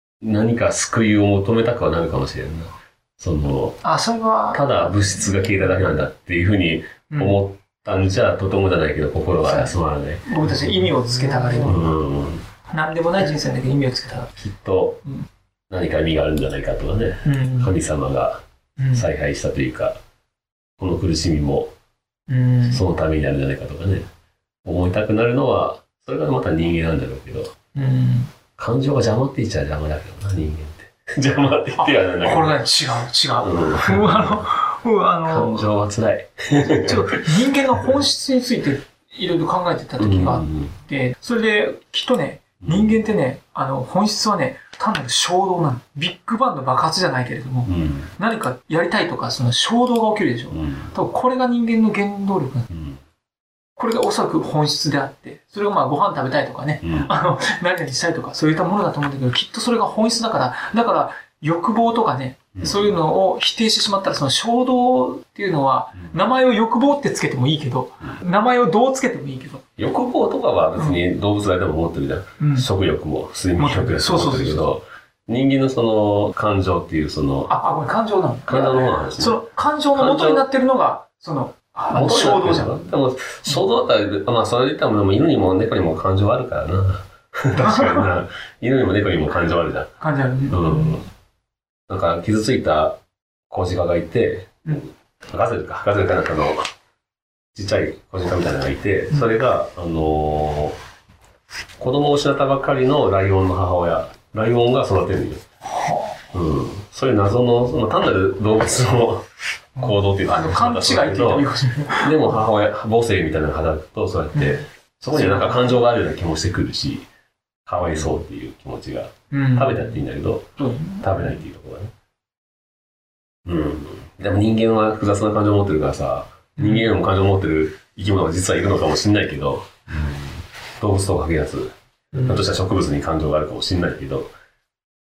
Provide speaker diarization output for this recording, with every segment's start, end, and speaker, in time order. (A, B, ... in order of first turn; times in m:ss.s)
0:00.2-0:03.8 A
0:03.8-0:04.7 B
0:04.5-0:10.3 A
0:07.1-0:07.4 B
0:09.4-0:11.8 B
0:11.5-0:12.4 A
0:12.7-0:14.4 B
0:14.4-0:15.0 A
0:15.7-0:18.4 A
0:17.2-0:17.7 B
0:18.8-0:19.1 B
0:18.9-0:20.0 A
0:20.8-0:21.7 A
0:22.3-0:22.8 B
0:22.6-0:24.1 A
0:24.6-0:27.5 A
0:27.7-0:28.3 B
0:28.6-0:32.6 A
0:31.8-0:35.7 B
0:33.4-0:34.4 A
0:35.2-0:37.2 A
0:36.8-0:52.7 B
0:40.0-0:40.8 A
0:42.6-0:43.0 A
0:47.6-0:48.1 A
0:50.5-0:50.9 A
0:52.7-0:53.0 A
0:53.8-1:09.6 B
0:56.8-0:57.1 A
1:02.5-1:03.0 A
1:09.8-1:17.6 A
1:10.8-1:11.0 B
1:12.4-1:12.7 B
1:13.6-1:14.7 B
1:17.5-1:22.8 B
1:18.4-1:20.4 A
1:21.9-1:29.9 A
1:27.6-1:28.1 B
1:30.0-1:31.1 B
1:30.5-1:31.0 A
1:31.9-1:33.0 A
1:33.5-1:36.6 A
1:37.5-1:40.8 A
1:41.8-1:45.4 A
1:45.7-1:46.2 B
1:46.3-1:49.2 A
1:49.8-1:57.0 A
1:49.8-1:52.5 B
1:54.3-1:55.8 B
1:57.6-2:01.9 A
1:59.3-2:00.0 B
2:00.6-2:01.3 B
2:03.4-2:14.3 A
2:06.6-2:06.9 B
2:12.1-2:12.4 B